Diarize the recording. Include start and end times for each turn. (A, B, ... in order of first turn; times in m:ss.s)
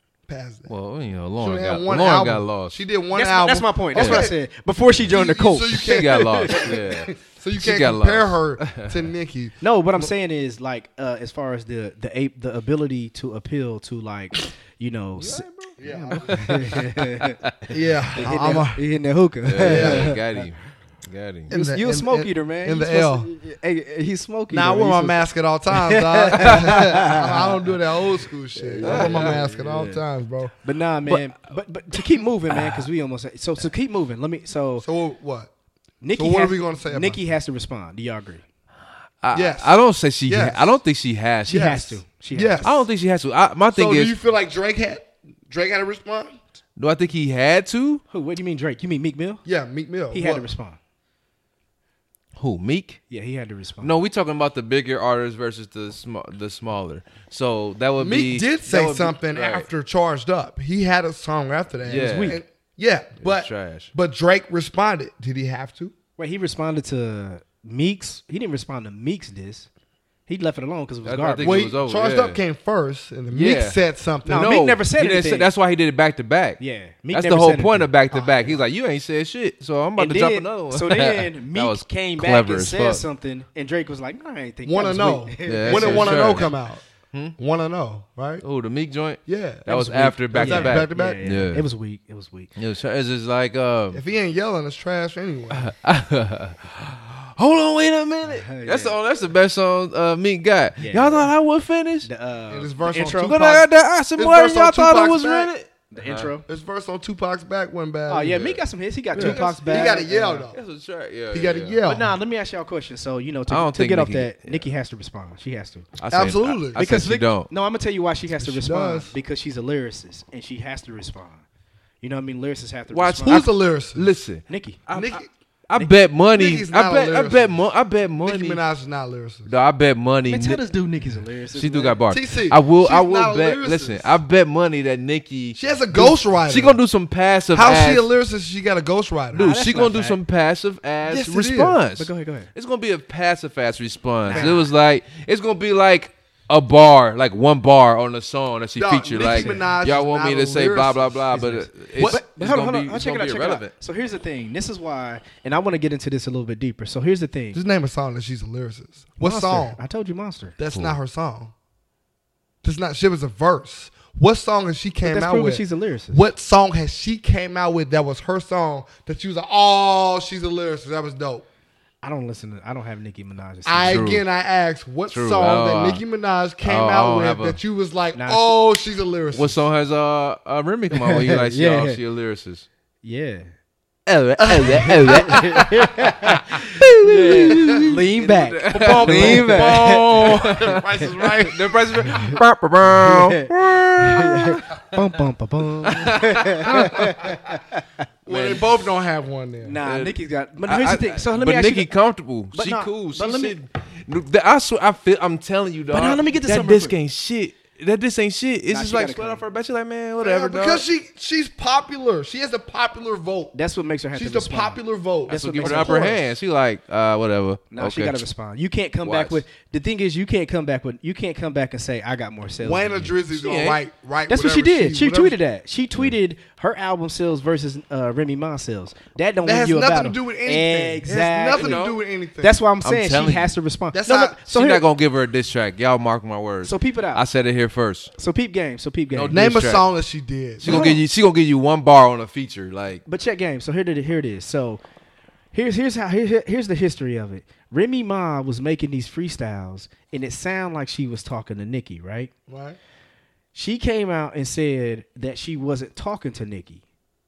0:00.3-0:00.7 A
0:00.7-0:02.8 B
0:01.4-0:04.4 A
0:03.1-0:06.8 C
0:03.9-0:04.3 B
0:05.1-0:10.1 A
0:05.8-0:09.0 B
0:09.6-0:17.4 C
0:15.2-0:17.5 B
0:15.8-0:16.5 A
0:17.7-0:18.8 A
0:18.1-0:20.4 C
0:19.4-0:21.5 B
0:19.6-0:20.2 A
0:21.5-0:23.3 A
0:21.5-0:27.7 C
0:24.5-0:30.5 A
0:28.5-0:30.0 C
0:28.8-0:29.4 B
0:30.6-0:34.8 C
0:31.0-0:31.3 B
0:31.9-0:32.9 B
0:34.8-0:35.5 A
0:36.0-0:38.4 C
0:36.2-0:37.2 A
0:39.2-0:41.8 B
0:39.3-0:40.8 A
0:41.5-0:42.6 C
0:41.5-0:42.9 A
0:42.6-0:44.1 B
0:43.7-0:46.4 A
0:46.8-0:48.0 B
0:48.1-0:49.4 C
0:49.4-0:50.5 A
0:50.1-0:50.8 C
0:52.4-0:53.0 B
0:53.1-0:54.0 C
0:53.8-0:59.7 B
0:58.0-1:05.9 A
1:01.8-1:02.4 B
1:01.9-1:02.4 C
1:03.2-1:03.9 B
1:06.2-1:09.7 C
1:10.3-1:11.5 C
1:11.0-1:12.4 B
1:11.4-1:14.5 A
1:13.3-1:16.6 B
1:14.2-1:15.5 C
1:16.6-1:17.9 C
1:17.1-1:23.0 B
1:18.1-1:18.6 A
1:20.0-1:26.5 C
1:24.6-1:26.8 A
1:25.4-1:26.5 B
1:27.1-1:27.4 B
1:27.4-1:28.4 A
1:28.4-1:31.6 B
1:29.2-1:31.2 A
1:30.3-1:32.5 C
1:32.6-1:34.0 B
1:33.9-1:35.7 A
1:35.5-1:42.1 B
1:38.2-1:39.0 C
1:40.8-1:41.3 C
1:42.0-1:43.4 C
1:42.5-1:45.5 A
1:43.2-1:46.3 B
1:45.9-1:46.4 C
1:46.4-1:48.5 A
1:48.1-1:50.4 C
1:48.3-1:48.6 B
1:49.1-1:51.8 B
1:49.1-1:50.6 A
1:51.3-1:52.1 A
1:51.8-1:55.9 C
1:53.5-1:54.7 B
1:56.0-1:57.5 B
1:56.1-1:57.0 A
1:56.7-2:01.4 C
1:58.4-1:59.1 A
2:02.0-2:03.5 C
2:02.9-2:08.6 B
2:03.2-2:04.1 A
2:04.5-2:04.8 C
2:04.9-2:05.3 A
2:06.3-2:07.6 A
2:08.2-2:09.5 A
2:09.4-2:10.6 B
2:10.3-2:12.0 C
2:11.5-2:18.0 B
2:12.1-2:14.2 A
2:15.6-2:16.8 A
2:17.5-2:19.5 A
2:19.3-2:20.2 C
2:19.3-2:33.7 B
2:21.0-2:21.8 A
2:22.0-2:22.5 C
2:24.3-2:24.7 C
2:28.8-2:32.2 A
2:29.2-2:29.6 C
2:31.4-2:37.6 C
2:37.5-2:39.8 A
2:39.2-2:40.6 C
2:40.6-2:41.5 A
2:42.6-2:51.4 A
2:45.0-2:46.2 C
2:52.0-2:54.1 C
2:53.6-2:59.6 A
2:53.9-2:54.2 B
2:55.1-2:56.0 B
2:56.6-2:57.6 B
2:58.1-2:58.5 C
2:59.3-3:02.7 B
3:00.9-3:02.0 C
3:03.0-3:03.5 C
3:04.1-3:15.0 B
3:04.4-3:05.7 A
3:05.0-3:10.3 C
3:07.3-3:07.7 A
3:08.7-3:12.0 A
3:12.1-3:17.8 C
3:15.8-3:17.3 B
3:18.2-3:18.9 B
3:18.2-3:19.8 A
3:19.6-3:21.9 C
3:19.8-3:20.1 B
3:20.7-3:30.8 B
3:22.5-3:23.6 C
3:25.9-3:26.9 C
3:28.7-3:29.4 C
3:30.2-3:33.5 A
3:33.5-3:36.1 C
3:34.1-3:36.2 A
3:35.3-3:38.2 B
3:37.7-3:43.1 C
3:39.0-3:39.4 B
3:42.6-3:45.4 A
3:43.4-3:43.8 B
3:44.3-3:51.8 C
3:49.4-3:52.6 A
3:51.5-3:52.0 B
3:52.4-3:54.8 C
3:52.8-3:53.5 B
3:53.9-3:54.4 A
3:54.5-3:58.1 B
3:56.6-3:57.2 C
3:58.2-3:59.4 C
3:59.1-3:59.8 B
3:59.3-4:00.7 A
4:00.6-4:03.0 B
4:00.6-4:01.0 C
4:03.0-4:04.8 C
4:05.5-4:12.3 C
4:12.5-4:12.8 A
4:13.5-4:16.8 C